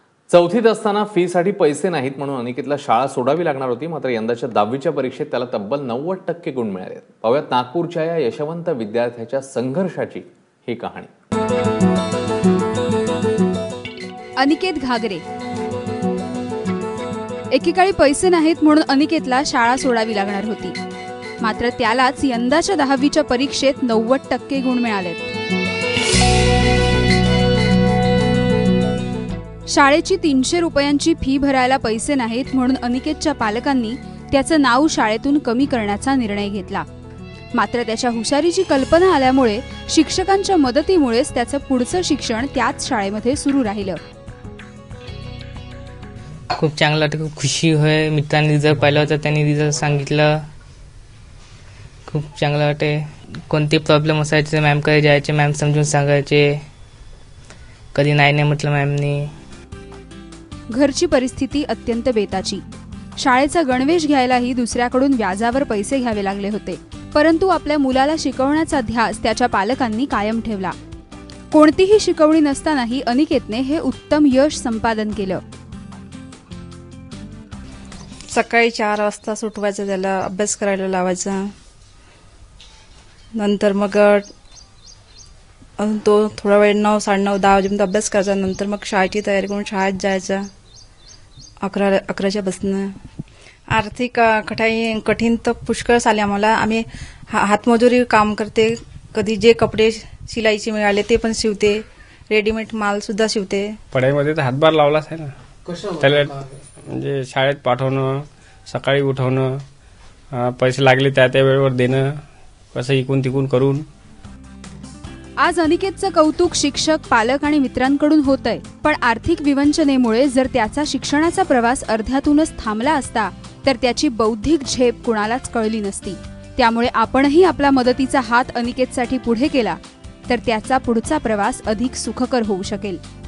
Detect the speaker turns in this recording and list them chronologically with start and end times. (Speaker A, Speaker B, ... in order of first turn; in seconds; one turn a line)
Speaker A: 0.3-11.1
Speaker B: 14.4-15.2
Speaker B: 17.5-20.8
Speaker B: 21.4-25.3
Speaker B: 29.7-36.8
Speaker B: 37.5-44.0
Speaker C: 46.5-50.4
Speaker C: 52.1-56.6
Speaker C: 57.9-59.3
Speaker B: 60.7-62.6
Speaker B: 63.2-70.7
Speaker B: 71.5-75.4
Speaker D: 78.3-81.5
Speaker D: 83.4-84.3
Speaker D: 85.8-90.5
Speaker D: 91.6-92.9
Speaker D: 93.7-103.8
Speaker E: 103.9-108.1
Speaker E: 108.7-109.5
Speaker E: 110.3-112.1
Speaker E: 112.7-113.8
Speaker B: 115.4-133.0